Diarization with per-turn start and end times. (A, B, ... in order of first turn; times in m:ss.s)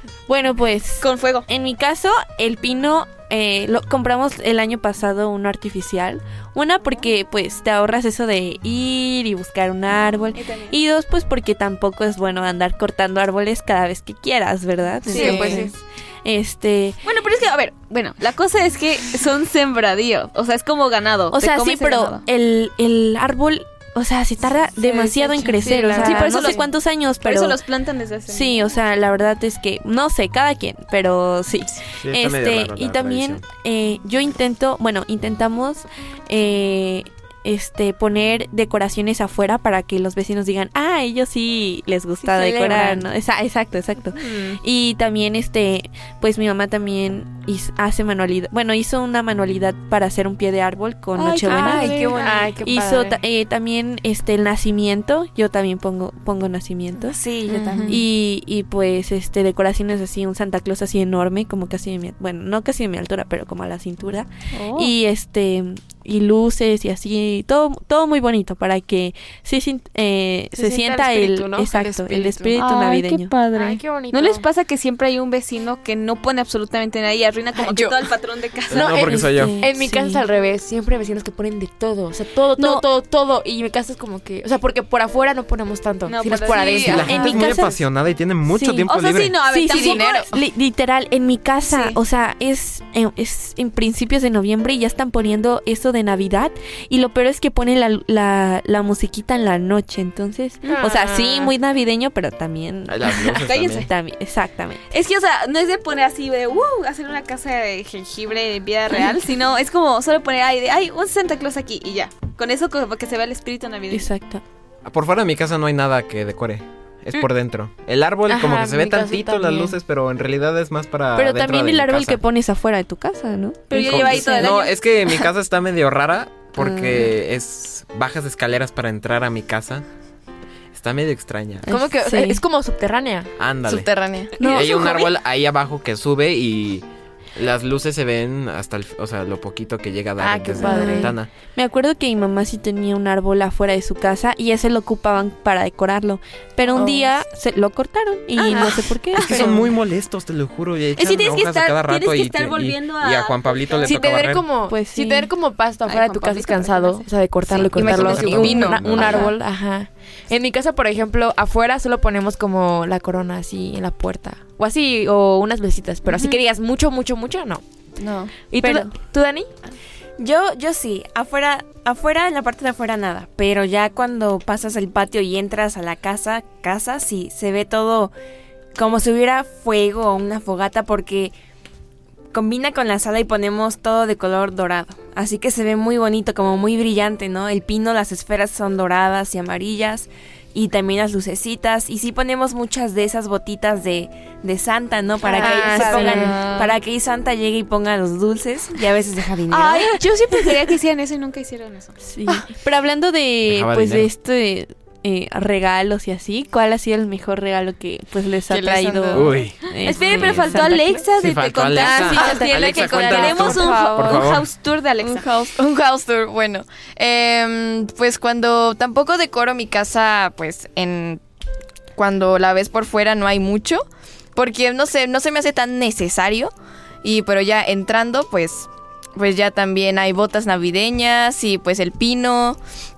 0:00.3-0:17.0 A
0:01.0-0:01.4 B
0:10.4-0:10.7 B
0:15.1-0:15.7 B
0:15.1-0:15.7 C
0:15.2-0:15.5 D
0:17.0-0:22.2 B
0:21.3-0:27.6 A
0:24.8-0:26.7 B
0:25.3-0:26.6 C
0:27.2-0:28.7 B
0:28.3-0:52.1 A
0:31.8-0:33.4 E
0:42.3-0:43.0 F
0:44.2-0:44.6 C
0:51.2-0:52.2 B
0:51.4-0:52.6 F
0:51.6-0:53.2 C
0:52.6-0:57.2 A
0:57.1-0:58.0 F
0:57.9-1:13.3 A
1:04.5-1:04.9 B
1:10.5-1:12.6 C
1:12.6-1:19.0 B
1:13.5-1:14.4 C
1:18.7-1:19.6 E
1:18.7-1:27.6 C
1:19.0-1:20.2 A
1:22.6-1:22.8 A
1:26.0-1:27.1 B
1:26.8-1:29.4 E
1:27.0-1:27.8 A
1:28.5-1:28.9 A
1:28.9-1:30.2 B
1:29.5-1:44.8 A
1:29.7-1:30.4 D
1:31.7-1:32.0 B
1:40.6-1:41.5 C
1:42.9-1:43.9 E
1:43.4-1:43.9 B
1:44.9-1:54.1 B
1:53.9-1:54.4 A
1:54.8-2:02.2 E
1:58.3-1:59.7 C
2:01.2-2:04.5 A
2:03.7-2:04.7 B
2:03.8-2:09.8 E
2:06.6-2:07.0 A
2:10.7-2:11.7 E
2:11.7-2:12.4 A
2:11.7-2:13.3 C
2:13.4-2:21.3 E
2:13.6-2:14.4 D
2:14.4-2:14.7 A
2:14.6-2:15.0 B
2:20.2-2:21.2 C
2:20.6-2:29.6 A
2:26.7-2:27.1 C
2:28.4-2:29.6 B
2:28.5-2:28.8 C
2:29.2-2:34.5 E
2:31.0-2:34.0 B
2:33.8-2:47.6 C
2:34.7-2:35.3 A
2:35.8-2:37.7 B
2:37.7-2:39.3 D
2:37.7-2:39.3 E
2:48.0-2:48.4 D
2:48.4-2:49.5 C
2:48.6-2:48.9 A
2:50.2-2:58.1 F
2:58.7-3:01.3 F
3:02.3-3:20.0 F
3:15.3-3:16.4 C
3:15.8-3:16.7 D
3:19.5-3:22.0 B
3:22.0-3:31.0 A
3:23.4-3:24.1 E
3:28.5-3:29.4 D
3:29.1-3:29.6 E
3:29.8-3:35.3 B
3:30.0-3:30.9 C
3:31.2-3:34.5 E
3:31.8-3:34.3 C
3:32.2-3:32.5 A
3:33.1-3:33.5 A
3:35.1-3:41.2 D
3:41.9-3:52.6 D